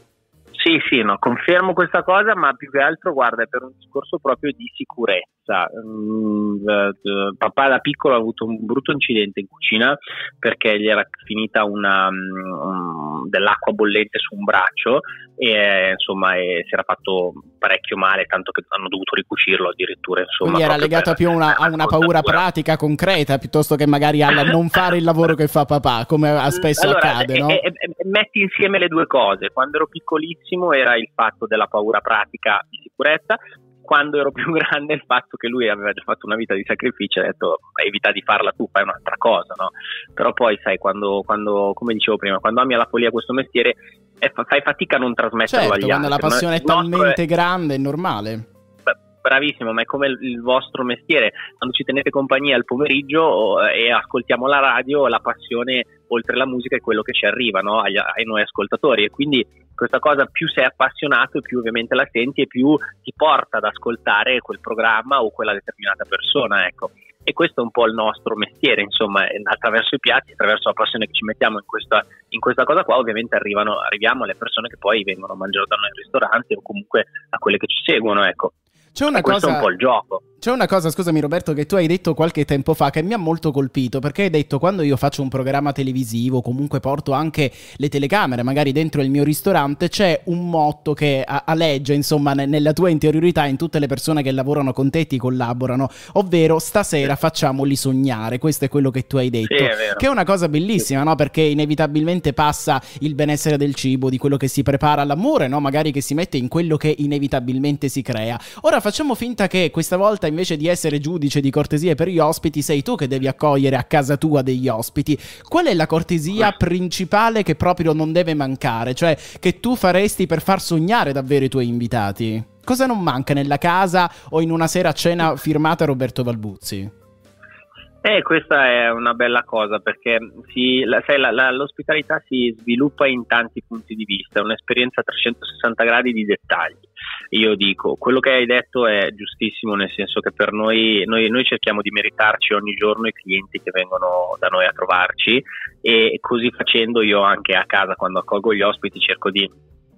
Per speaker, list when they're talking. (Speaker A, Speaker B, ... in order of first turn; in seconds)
Speaker A: 0.5-22.4, 26.5-47.2, 48.9-78.5, 79.1-80.2, 99.4-100.0, 128.0-149.5
Speaker B: 20.4-27.6, 45.5-48.5, 78.9-79.7, 80.4-126.9